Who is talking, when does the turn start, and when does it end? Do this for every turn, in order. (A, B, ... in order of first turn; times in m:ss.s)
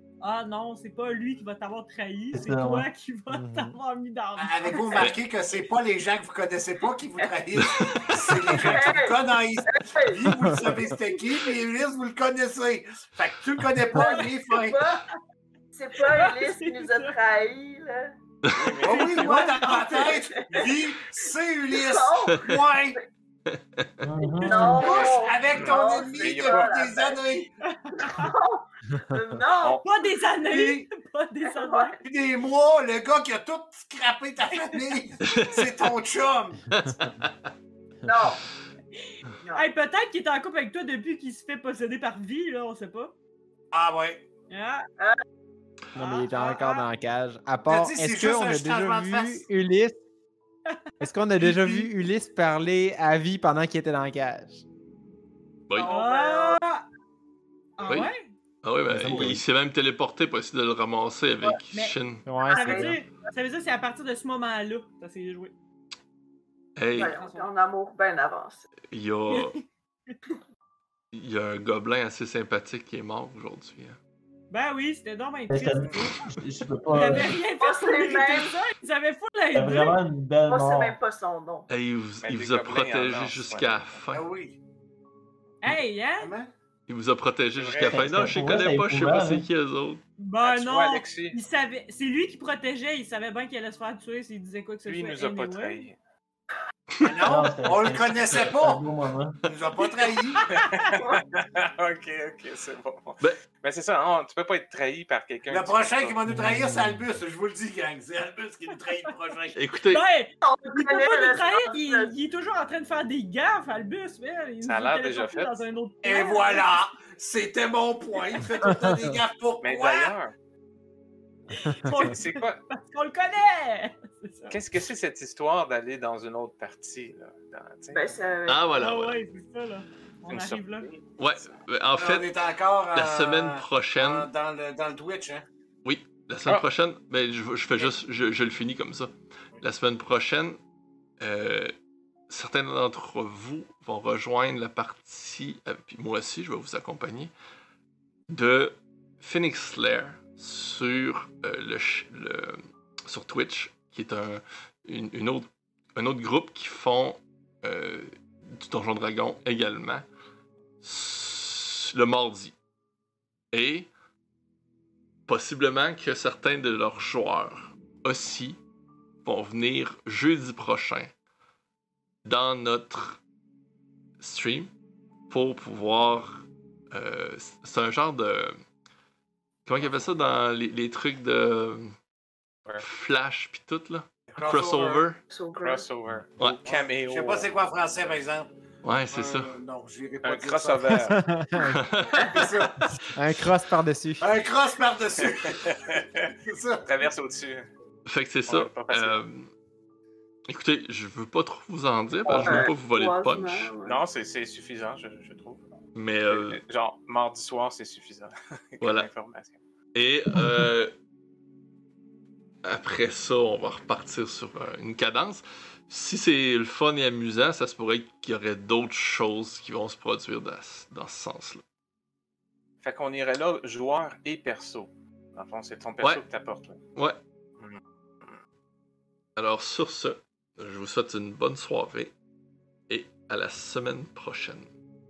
0:00.2-0:04.8 A
0:02.3-0:02.9 B
0:03.3-0:03.8 C
0:04.4-0:15.0 D
0:07.6-0:08.6 E
0:08.5-0:10.7 F
0:10.5-0:10.8 C
0:13.9-0:15.0 F
0:15.7-0:18.2 F
0:16.0-0:17.1 A
0:18.4-0:18.8 E
0:18.6-0:19.4 G
0:18.8-0:23.0 D
0:18.9-0:20.0 A
0:19.2-0:20.9 F
0:21.7-0:22.8 F
0:23.5-0:23.9 E
0:24.0-0:24.9 B
0:24.4-0:27.2 F
0:24.4-0:25.2 A
0:24.7-0:27.5 D
0:25.6-0:26.7 G
0:27.8-0:28.2 A
0:27.9-0:29.8 F
0:29.8-0:31.9 A
0:30.4-0:30.9 D
0:31.4-0:32.0 F
0:32.0-0:36.6 D
0:34.5-0:35.4 A
0:35.2-0:35.9 E
0:36.7-0:37.3 E
0:36.8-0:37.1 C
0:38.0-0:38.5 F
0:38.9-0:43.1 A
0:43.7-0:44.2 D
0:44.5-0:44.8 A
0:45.9-0:46.9 A
0:46.0-0:50.0 C
0:47.7-0:49.5 D
0:51.0-0:54.6 C
0:51.0-0:51.9 A
0:55.7-0:56.6 F
0:55.8-0:56.8 A
0:57.8-0:58.3 A
0:58.6-1:02.3 E
0:58.9-0:59.4 C
1:01.7-1:05.5 A
1:02.2-1:03.0 C
1:02.5-1:03.0 F
1:06.8-1:07.1 E
1:06.9-1:08.7 F
1:07.0-1:07.5 A
1:08.9-1:09.5 E
1:09.3-1:10.2 A
1:11.1-1:14.0 E
1:14.5-1:16.1 A
1:15.5-1:17.3 B
1:16.9-1:20.0 A
1:17.6-1:18.5 F
1:19.5-1:21.0 B
1:20.5-1:21.7 F
1:21.7-1:24.2 E
1:22.2-1:24.0 G
1:24.1-1:24.6 D
1:25.6-1:26.3 A
1:26.2-1:26.5 D
1:26.9-1:30.0 E
1:27.6-1:28.1 G
1:27.9-1:29.4 B
1:30.2-1:35.8 A
1:30.4-1:31.4 G
1:34.8-1:36.0 G
1:37.0-1:38.8 D
1:37.2-1:39.4 B
1:39.4-1:40.4 D
1:40.3-1:40.9 A
1:40.4-1:46.2 G
1:45.5-1:49.6 D
1:46.3-1:47.0 B
1:49.5-1:50.0 E
1:49.9-1:56.8 A
1:50.4-1:52.1 F
1:54.6-1:55.5 G
1:56.0-2:00.2 D
1:58.6-1:59.1 C
1:59.6-2:00.3 G
2:01.5-2:04.6 A
2:02.0-2:02.6 G
2:04.5-2:08.0 G
2:07.9-2:08.7 F
2:08.5-2:09.2 E
2:08.7-2:10.9 A
2:10.3-2:11.0 G
2:11.2-2:12.3 E
2:12.0-2:15.4 D
2:12.9-2:14.3 E
2:15.8-2:20.6 E
2:21.2-2:21.7 E
2:22.3-2:27.3 E
2:28.3-2:40.0 E
2:40.8-2:42.5 E
2:43.5-2:43.9 E
2:45.3-2:48.6 E
2:49.2-2:51.1 E
2:52.2-2:53.2 E
2:54.2-2:54.7 E
2:55.3-2:58.6 E
2:59.6-3:02.0 E
3:02.8-3:05.2 E
3:04.3-3:05.1 D
3:05.3-3:05.8 F
3:05.6-3:07.5 G
3:06.4-3:06.7 E
3:06.6-3:08.5 D
3:08.8-3:09.5 E
3:09.1-3:11.1 D
3:10.2-3:11.2 G
3:11.1-3:11.8 C
3:11.7-3:12.5 E
3:12.2-3:12.9 D
3:13.1-3:14.3 C
3:14.2-3:15.8 D
3:15.2-3:16.3 G
3:16.4-3:16.8 D
3:16.8-3:17.7 G
3:18.0-3:19.5 E
3:18.4-3:19.2 G
3:20.5-3:23.7 E
3:22.3-3:22.6 B
3:22.3-3:24.0 F
3:23.8-3:25.6 G
3:25.9-3:26.6 E
3:26.3-3:29.6 G
3:28.8-3:29.1 E
3:29.9-3:30.9 E
3:32.6-3:41.6 E
3:42.8-3:46.8 G
3:47.6-3:48.3 G
3:49.4-3:52.1 E
3:52.9-3:54.7 E